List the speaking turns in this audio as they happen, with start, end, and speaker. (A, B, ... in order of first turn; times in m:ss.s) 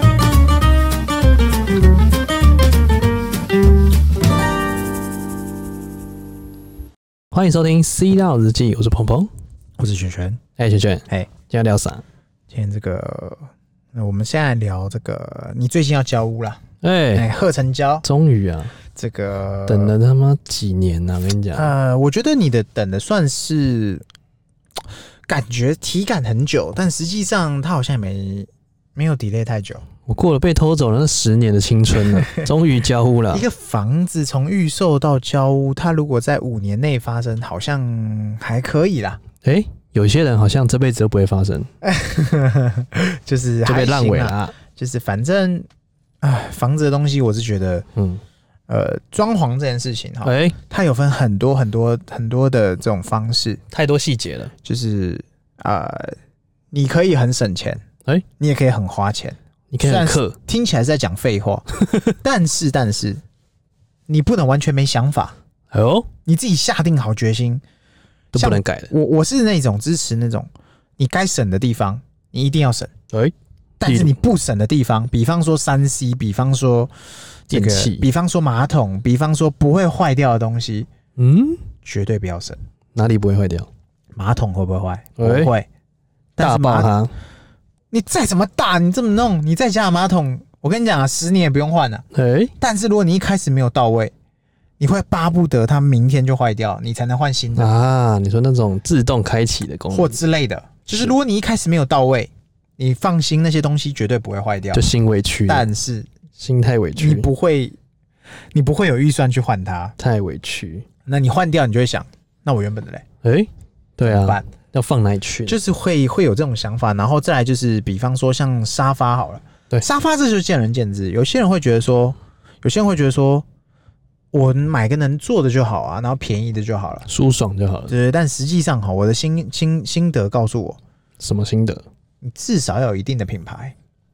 0:07.3-0:09.3 A
0:09.8-0:10.4 B
0:10.6-0:12.0 A
0:12.5-0:13.4 B
0:13.9-0:16.6 B
0:16.8-0:17.2 A
0:17.1-0:18.0 B
0:18.0-0:18.7 A
0:18.9-0:19.9 B
0:19.7-0:21.7 A
0:21.5-0:24.0 B
0:25.3-0:29.8 B
0:30.0-0:33.4 A
0:33.3-0:39.2 B
0:39.4-0:41.7 A
0:41.8-0:45.7 B
0:43.6-0:44.5 A
0:46.2-0:47.8 B
0:47.9-0:48.2 A
0:48.7-0:53.6 B
0:50.2-0:50.6 A
0:53.7-0:54.5 A
0:54.6-0:56.2 B
0:56.7-0:57.8 B
0:58.4-1:03.2 B
0:59.7-1:00.4 A
1:04.1-1:05.3 B
1:05.7-1:06.1 A
1:06.2-1:07.6 B
1:08.3-1:08.9 A
1:08.4-1:12.9 B
1:13.8-1:16.9 B
1:13.8-1:14.2 A
1:17.5-1:18.0 A
1:17.5-1:20.9 B
1:21.2-1:21.6 A
1:21.8-1:22.6 B
1:22.9-1:23.7 A
1:24.1-1:25.7 B
1:25.2-1:25.5 A
1:26.4-1:26.9 B
1:26.4-1:27.1 A
1:27.9-1:32.0 B
1:32.1-1:32.5 A
1:32.6-1:34.1 B
1:34.8-1:37.7 B
1:37.6-1:40.2 A
1:39.9-1:44.8 B
1:40.9-1:41.1 A
1:44.7-1:45.6 A
1:45.5-1:46.1 B
1:46.4-1:47.3 A
1:47.0-1:47.8 B
1:48.5-1:49.9 B
1:50.0-1:50.8 A
1:51.1-1:53.0 B
1:53.2-1:55.6 A
1:54.0-1:54.5 B
1:55.4-2:03.4 B
2:04.3-2:07.0 B
2:07.1-2:07.9 A
2:07.9-2:10.8 B
2:11.2-2:11.8 A
2:12.2-2:13.7 B